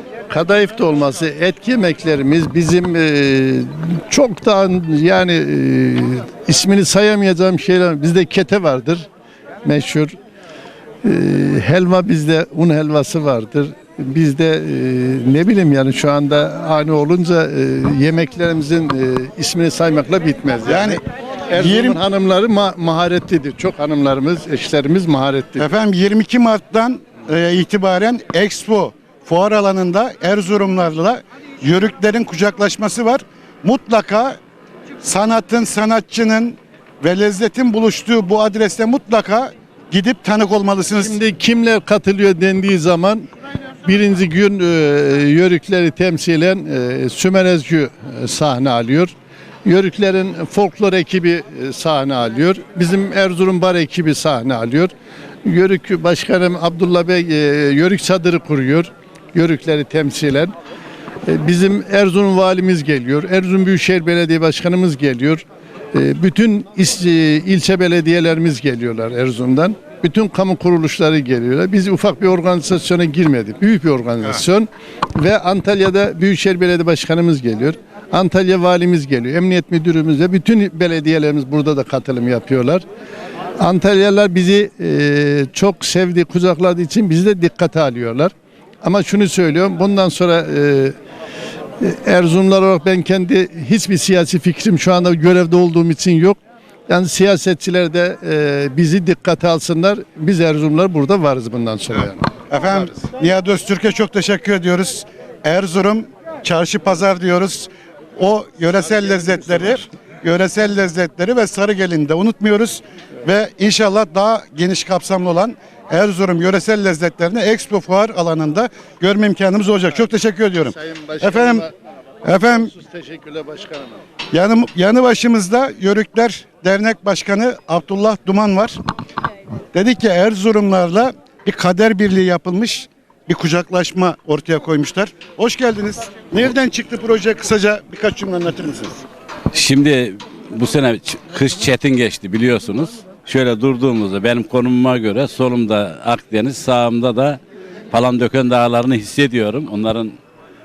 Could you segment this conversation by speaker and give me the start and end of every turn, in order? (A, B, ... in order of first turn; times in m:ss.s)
0:00.3-0:09.1 A
0:09.6-0:10.1 A
0:11.0-0:25.6 A
0:20.6-0:21.0 B
0:21.5-0:22.0 B
0:25.6-0:34.4 B
0:35.0-0:41.2 B
0:41.0-0:43.3 A
0:43.8-0:49.1 A
0:49.6-0:54.9 A
0:55.4-1:00.5 A
1:01.2-1:22.8 A
1:23.6-1:30.9 A
1:31.8-1:42.3 A
1:42.5-2:01.6 B
2:00.6-2:01.7 A
2:02.2-2:02.7 B
2:02.2-2:04.0 A
2:04.3-2:08.8 B
2:09.7-2:19.0 B
2:19.5-2:27.4 C
2:27.9-2:30.2 C